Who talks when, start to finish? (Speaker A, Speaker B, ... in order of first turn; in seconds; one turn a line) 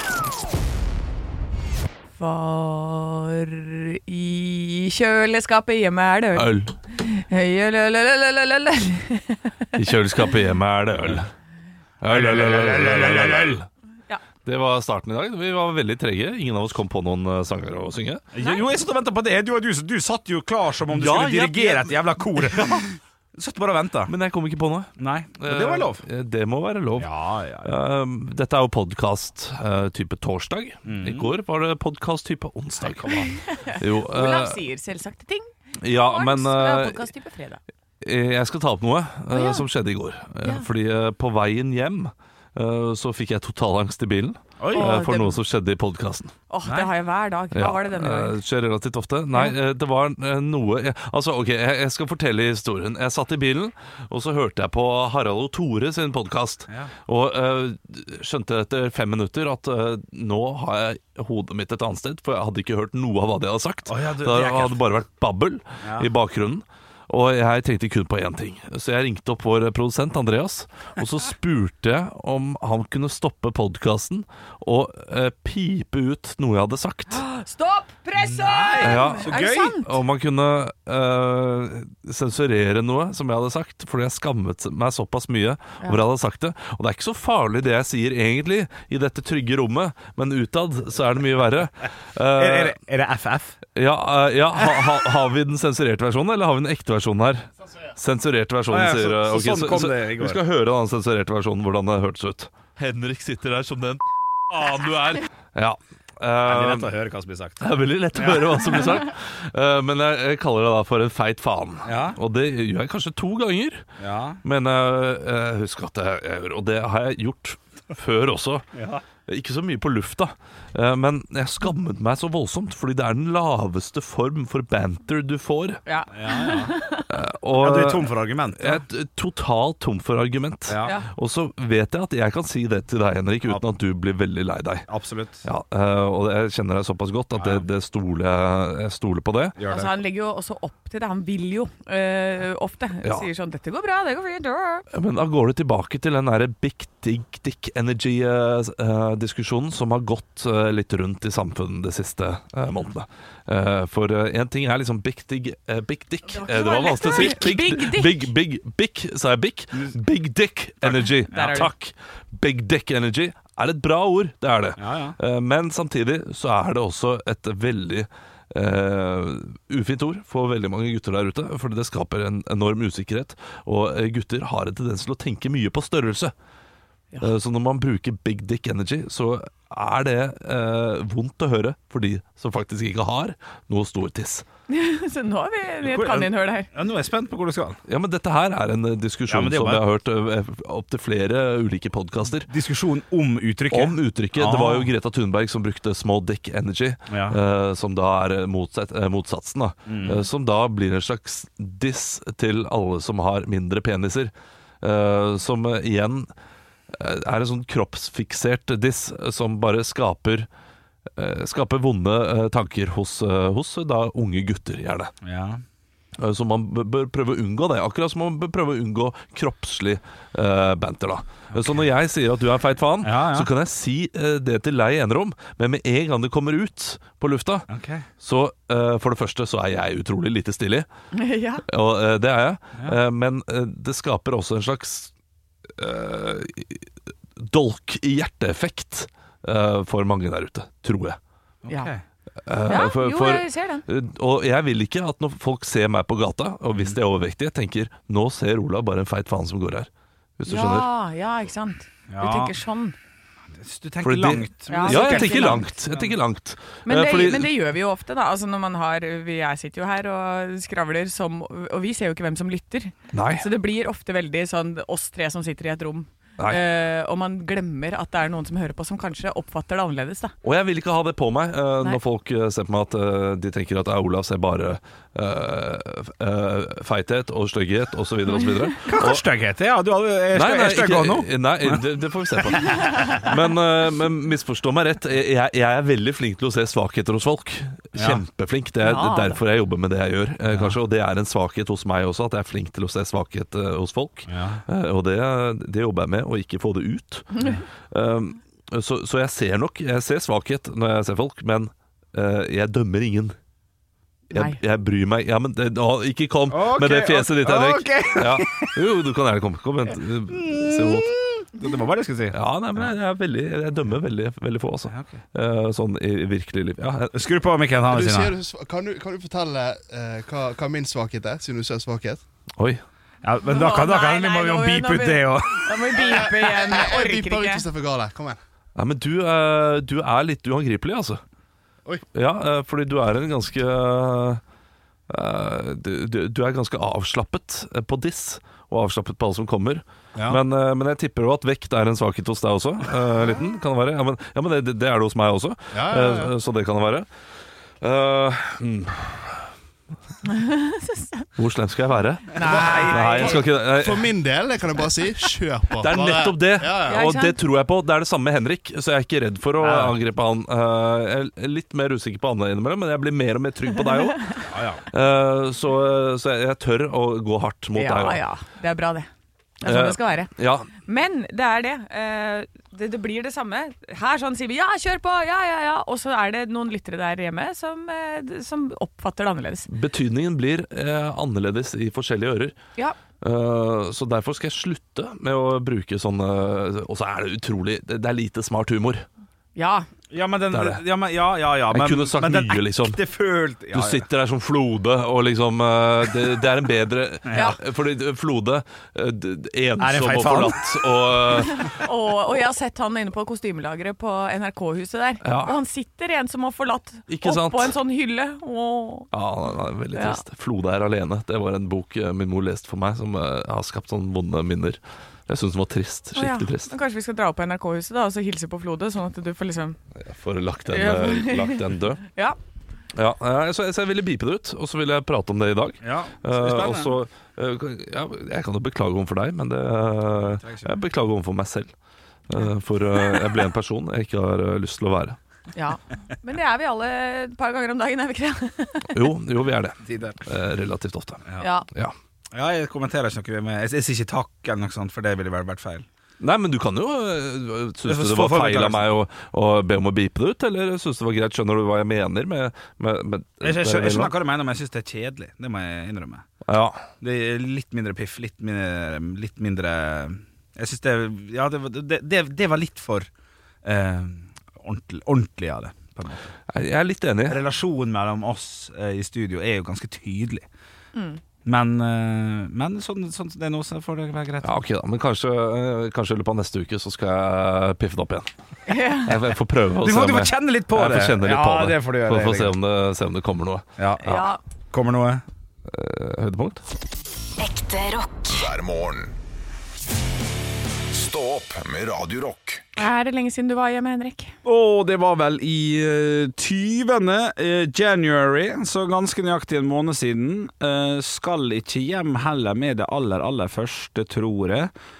Speaker A: 2.2-9.7
Speaker B: 6.3-6.7
Speaker B: 9.7-11.3
Speaker B: 12.0-13.7
Speaker C: 12.1-13.6
Speaker B: 14.4-18.2
Speaker C: 18.3-24.1
Speaker B: 20.9-21.9
Speaker B: 24.1-27.1
Speaker C: 25.0-26.0
Speaker C: 27.0-27.8
Speaker B: 27.6-34.6
Speaker C: 30.9-31.3
Speaker C: 32.8-33.1
Speaker A: 33.1-37.6
Speaker B: 35.8-37.1
Speaker B: 38.0-46.3
Speaker A: 39.3-39.6
Speaker C: 44.6-44.9
Speaker A: 44.7-45.4
Speaker A: 46.5-48.4
Speaker B: 47.5-77.2
Speaker C: 63.9-64.8
Speaker C: 65.8-66.1
Speaker A: 77.1-79.9
Speaker C: 78.2-79.7
Speaker B: 78.8-92.8
Speaker C: 92.3-93.6
Speaker B: 93.8-106.9
Speaker C: 98.7-100.4
Speaker C: 106.4-108.6
Speaker B: 107.6-113.8
Speaker C: 111.8-112.2
Speaker C: 114.0-114.4
Speaker B: 114.4-118.7
Speaker C: 118.7-119.0
Speaker B: 119.3-125.8
Speaker A: 125.8-127.1
Speaker C: 126.1-126.7
Speaker B: 127.1-134.9
Speaker C: 127.6-128.8
Speaker C: 130.7-130.9
Speaker C: 134.9-135.4
Speaker B: 135.4-139.6
Speaker C: 137.3-137.6
Speaker C: 139.6-139.9
Speaker A: 139.7-144.9
Speaker B: 144.9-176.3
Speaker A: 156.3-158.2
Speaker A: 161.3-161.7
Speaker C: 164.8-165.2
Speaker B: 177.2-184.4
Speaker A: 184.7-186.7
Speaker C: 185.8-187.8
Speaker B: 187.9-192.5
Speaker C: 189.3-189.8
Speaker C: 192.5-194.9
Speaker B: 193.7-206.3
Speaker C: 197.1-197.4
Speaker C: 199.9-200.2
Speaker B: 206.9-210.5
Speaker B: 211.2-215.1
Speaker C: 215.2-215.6
Speaker B: 216.2-227.7
Speaker C: 223.0-223.5
Speaker C: 227.7-228.1
Speaker B: 228.2-230.9
Speaker A: 231.1-231.6
Speaker B: 231.7-235.1
Speaker B: 235.8-241.2
Speaker C: 241.6-242.0
Speaker B: 242.4-250.9
Speaker A: 242.6-243.8
Speaker A: 250.4-252.9
Speaker C: 252.1-252.6
Speaker C: 253.5-256.2
Speaker B: 254.0-257.5
Speaker A: 254.7-255.7
Speaker A: 256.9-270.3
Speaker B: 263.1-263.4
Speaker B: 270.4-279.2
Speaker C: 278.8-281.8
Speaker B: 280.3-303.3
Speaker C: 282.5-283.1
Speaker C: 287.9-288.2
Speaker A: 288.8-289.4
Speaker C: 290.5-290.8
Speaker C: 294.3-294.6
Speaker A: 297.3-297.6
Speaker B: 304.3-311.1
Speaker A: 304.3-304.6
Speaker C: 306.5-308.8
Speaker C: 310.3-312.9
Speaker B: 312.3-317.1
Speaker C: 314.9-315.2
Speaker C: 317.0-318.4
Speaker D: 317.9-322.2
Speaker C: 323.2-325.9
Speaker A: 323.5-327.7
Speaker D: 326.0-328.4
Speaker E: 326.4-326.9
Speaker B: 328.8-331.2
Speaker B: 332.1-334.4
Speaker B: 335.1-347.1
Speaker D: 345.7-346.2
Speaker E: 345.9-346.2
Speaker B: 347.8-349.4
Speaker A: 350.2-351.3
Speaker B: 351.4-354.1
Speaker C: 352.3-353.4
Speaker D: 353.8-356.9
Speaker B: 355.8-368.2
Speaker E: 355.9-356.4
Speaker A: 356.8-357.4
Speaker C: 359.6-360.0
Speaker C: 364.5-364.8
Speaker A: 367.7-369.1
Speaker A: 369.6-379.7
Speaker B: 369.6-370.7
Speaker B: 379.7-382.6
Speaker B: 383.2-389.1
Speaker A: 389.6-389.9
Speaker C: 390.1-394.0
Speaker B: 390.5-390.8
Speaker B: 391.7-393.0
Speaker B: 393.7-401.7
Speaker A: 397.3-397.6
Speaker C: 399.8-400.6
Speaker A: 401.4-409.1
Speaker B: 405.2-405.6
Speaker B: 407.1-407.7
Speaker B: 409.1-416.7
Speaker A: 409.9-410.2
Speaker A: 416.1-419.8
Speaker B: 420.0-422.0
Speaker A: 420.7-422.4
Speaker B: 422.9-431.7
Speaker C: 425.8-426.9
Speaker C: 430.2-430.8
Speaker B: 432.3-435.2
Speaker A: 435.5-439.1
Speaker B: 438.9-441.9
Speaker C: 439.8-440.2
Speaker A: 441.4-441.6
Speaker C: 442.3-445.8
Speaker B: 446.2-454.1
Speaker C: 447.9-448.9
Speaker C: 453.4-456.2
Speaker B: 456.5-456.9
Speaker C: 457.0-463.1
Speaker C: 463.6-466.3
Speaker B: 466.5-467.4
Speaker C: 467.3-470.4
Speaker A: 470.9-471.2
Speaker C: 471.4-474.5
Speaker B: 474.4-478.3
Speaker A: 478.7-479.2
Speaker B: 479.0-484.2
Speaker C: 479.8-482.5
Speaker C: 483.8-484.1
Speaker A: 484.0-484.4
Speaker C: 484.7-485.2
Speaker B: 485.7-486.6
Speaker D: 487.4-488.1
Speaker E: 487.6-489.1
Speaker E: 490.9-492.9
Speaker A: 492.8-494.3
Speaker C: 494.4-504.7